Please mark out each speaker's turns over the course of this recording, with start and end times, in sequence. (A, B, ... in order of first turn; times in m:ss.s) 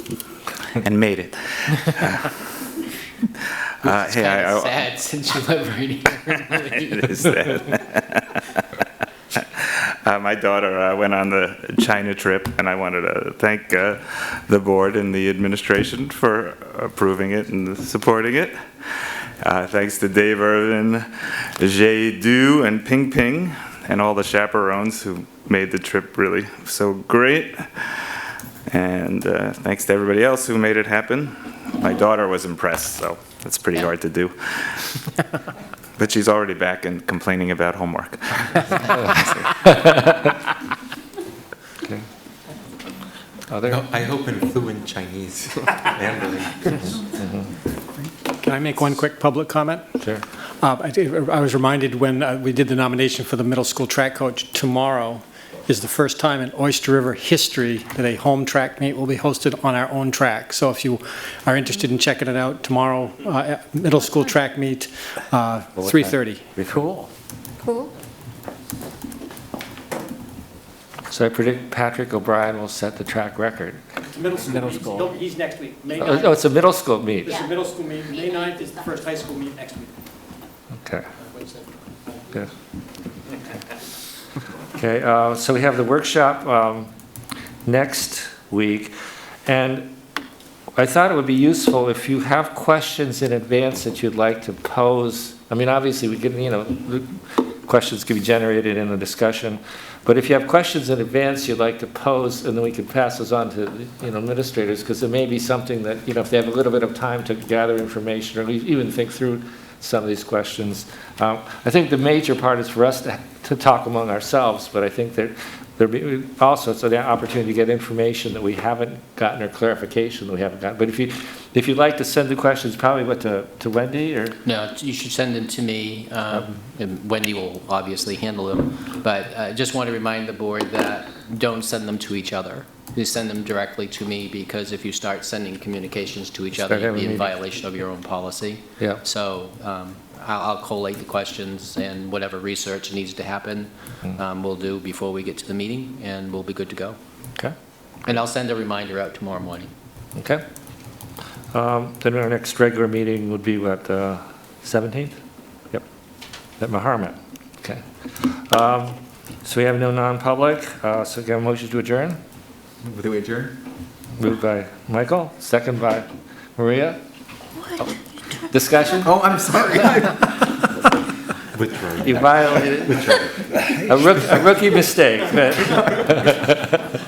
0:00.8-0:02.4 A
0:03.8-0:04.8 A
0:03.8-0:07.3 B
0:06.9-0:08.6 A
0:09.3-0:28.2 A
0:28.7-0:35.0 A
0:36.0-0:39.2 A
0:39.6-0:40.3 C
0:43.5-0:43.8 C
0:43.6-0:47.0 D
0:47.0-0:47.4 C
0:48.4-0:49.8 E
0:50.6-1:06.5 E
1:05.8-1:06.9 C
1:06.7-1:07.1 D
1:11.1-1:13.8 C
1:14.1-1:16.4 E
1:14.5-1:15.1 D
1:16.0-1:17.3 C
1:17.2-1:19.9 E
1:21.2-1:22.5 E
1:24.8-1:26.9 C
1:27.6-1:28.9 C
1:29.4-1:29.9 C
1:30.7-2:04.4 C
2:04.4-2:27.0 B
2:16.5-2:17.3 C
2:28.0-2:29.7 B
2:30.2-2:30.4 C
2:31.5-2:35.2 C
2:36.6-2:42.2 C
2:42.8-2:43.5 D
2:44.2-2:47.0 C
2:48.5-2:49.2 C
2:49.0-2:50.6 D
2:51.5-2:53.4 D
2:52.0-2:56.9 C